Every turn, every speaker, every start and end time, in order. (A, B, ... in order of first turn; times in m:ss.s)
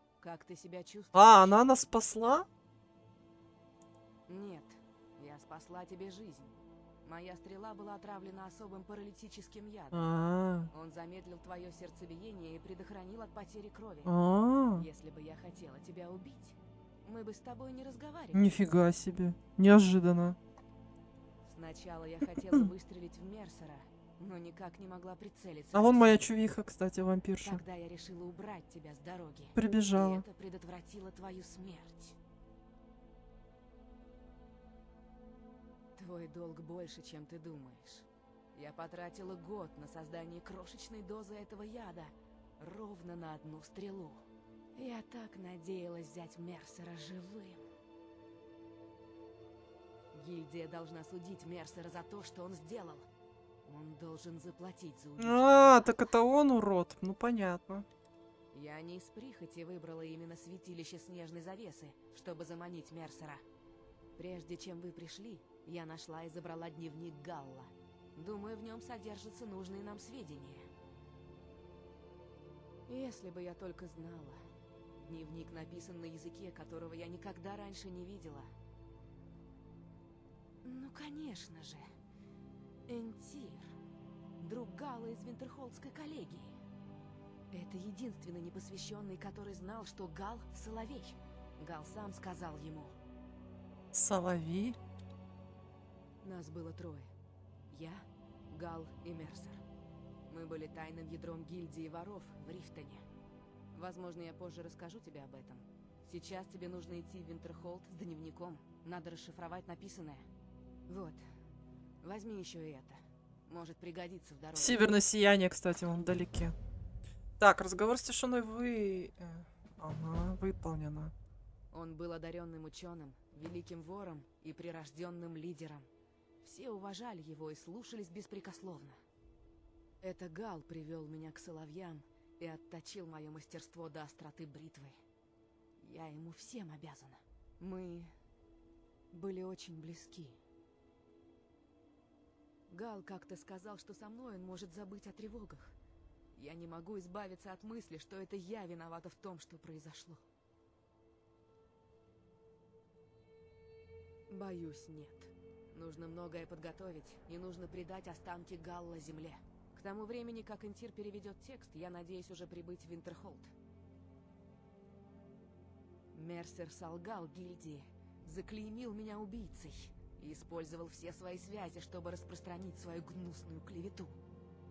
0:00.2-0:01.6 A
0:01.1-0:02.5 B
0:04.3-0:10.1 A
0:09.9-0:10.7 B
0:10.7-0:14.1 A
0:14.0-0:14.8 B
0:14.7-0:18.6 A
0:18.3-0:20.4 B
0:21.4-0:26.3 A
0:25.7-0:27.6 B
0:27.4-0:32.2 A
0:29.5-0:30.2 B
0:36.0-0:44.2 A
0:44.7-0:47.7 A
0:50.1-0:53.0 A
0:53.6-0:56.1 A
0:55.2-0:57.8 B
0:58.5-1:03.4 A
1:04.2-1:10.7 A
1:12.9-1:14.4 A
1:14.9-1:18.5 A
1:20.6-1:21.9 A
1:22.9-1:23.7 A
1:24.4-1:26.6 A
1:27.5-1:32.9 A
1:33.9-1:34.8 B
1:36.2-1:37.1 A
1:37.7-1:39.6 A
1:40.3-1:43.0 A
1:43.7-1:50.3 A
1:50.9-1:51.2 A
1:52.0-1:55.0 A
1:54.6-1:56.6 B
1:57.4-2:01.1 B
2:01.7-2:05.9 A
2:06.4-2:09.0 A
2:10.0-2:15.0 A
2:15.8-2:18.1 A
2:19.1-2:20.4 A
2:22.7-2:25.8 A
2:26.3-2:30.2 A
2:34.3-2:43.5 A
2:46.1-2:54.2 A